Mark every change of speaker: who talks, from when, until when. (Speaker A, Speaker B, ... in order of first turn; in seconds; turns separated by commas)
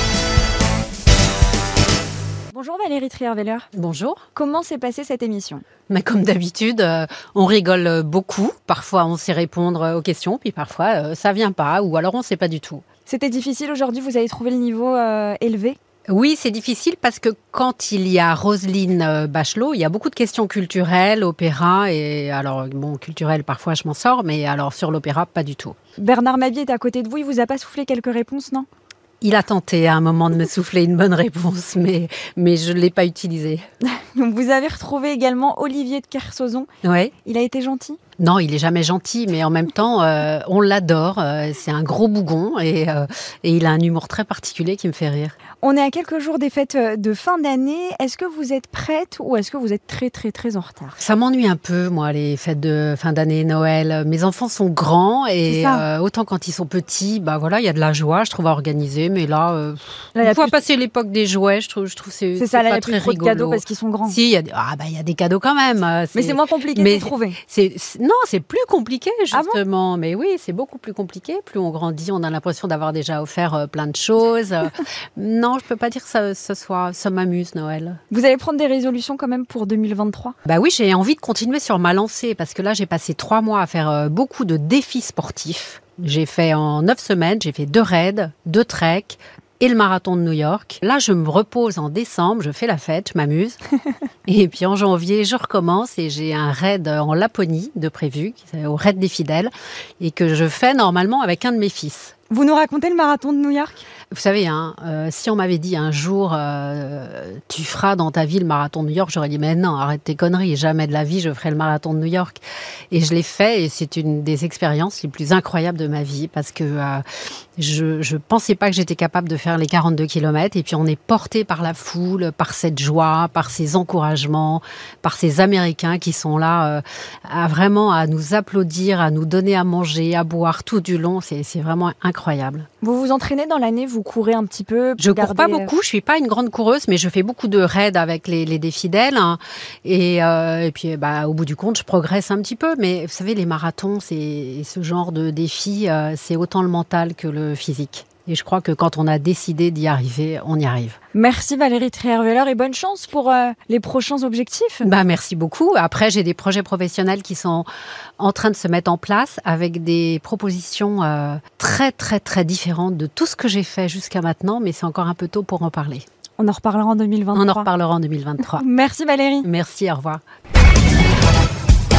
Speaker A: 2.5-3.7, Speaker B: 3.7-4.2, Speaker A: 4.3-5.6, Speaker B: 5.9-12.8, Speaker A: 13.1-15.8, Speaker B: 16.1-25.8, Speaker A: 26.0-28.7, Speaker B: 29.2-33.6, Speaker A: 33.9-36.7, Speaker B: 36.8-37.1, Speaker A: 37.2-38.0, Speaker B: 38.2-45.4, Speaker A: 45.6-51.0, Speaker B: 51.0-78.0, Speaker A: 55.5-55.9, Speaker A: 60.1-60.6, Speaker A: 62.4-64.2, Speaker A: 66.1-67.4, Speaker A: 69.3-69.6, Speaker A: 78.1-80.3, Speaker B: 80.5-93.6, Speaker B: 94.3-102.1, Speaker A: 102.3-103.8, Speaker B: 104.1-112.4, Speaker B: 112.9-117.0, Speaker B: 117.6-132.7, Speaker A: 132.8-135.7, Speaker B: 135.0-151.0, Speaker A: 151.1-154.8, Speaker B: 154.8-157.7, Speaker B: 158.2-166.0, Speaker A: 166.4-167.7, Speaker B: 167.3-168.6, Speaker A: 168.4-169.5, Speaker B: 169.4-170.2